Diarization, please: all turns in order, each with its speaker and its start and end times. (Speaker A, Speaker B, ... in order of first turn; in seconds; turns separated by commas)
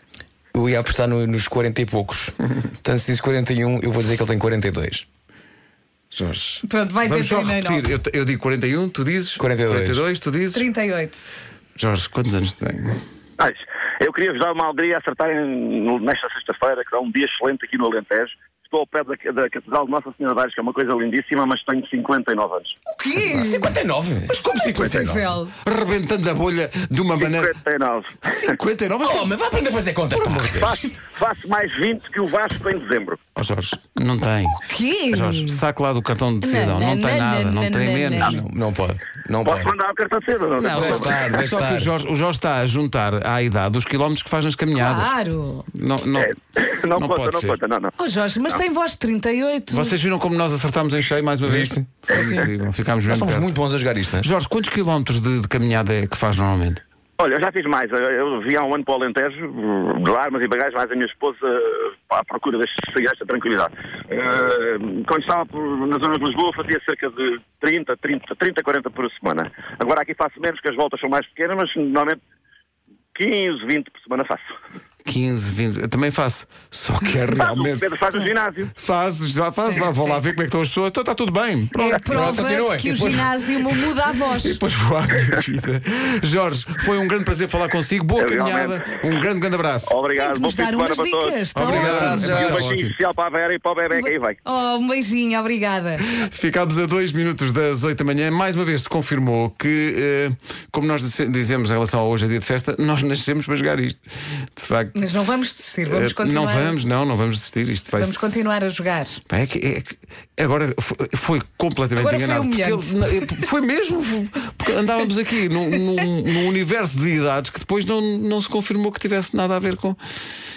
Speaker A: 0.5-5.1, Speaker B: 6.1-10.7, Speaker C: 6.6-7.8, Speaker A: 9.4-10.0, Speaker C: 10.5-11.2, Speaker B: 11.8-13.0, Speaker D: 13.4-22.8, Speaker C: 22.9-23.8, Speaker A: 23.3-25.4, Speaker B: 24.5-25.1, Speaker C: 24.8-25.5, Speaker B: 25.6-27.6, Speaker D: 27.2-28.6, Speaker B: 28.2-29.4, Speaker A: 29.0-30.8, Speaker B: 30.1-30.6, Speaker D: 30.6-33.2, Speaker B: 33.4-38.4, Speaker C: 34.6-35.6, Speaker C: 36.4-38.4, Speaker A: 38.2-39.7, Speaker D: 39.5-41.2, Speaker B: 40.6-45.1, Speaker A: 40.6-41.9, Speaker C: 44.8-45.7, Speaker B: 45.7-46.4, Speaker D: 46.2-48.0, Speaker B: 47.0-47.6, Speaker C: 48.0-50.0, Speaker B: 49.7-53.5, Speaker A: 51.4-52.5, Speaker A: 53.1-54.3, Speaker B: 54.2-56.8, Speaker D: 57.2-72.2, Speaker D: 73.2-74.5, Speaker B: 75.0-77.9, Speaker D: 77.3-78.7, Speaker B: 78.8-82.1, Speaker C: 79.7-80.2, Speaker C: 81.8-84.6, Speaker A: 82.0-83.3, Speaker B: 84.3-90.0, Speaker D: 88.2-88.9, Speaker D: 89.8-91.4, Speaker C: 90.1-92.3, Speaker B: 91.5-92.9, Speaker A: 91.6-92.8, Speaker D: 92.0-94.4, Speaker C: 93.9-96.0, Speaker B: 96.1-104.0, Speaker B: 104.5-105.0, Speaker C: 104.9-106.8, Speaker B: 105.8-108.4, Speaker C: 108.0-109.2, Speaker B: 109.3-120.0, Speaker C: 112.0-113.5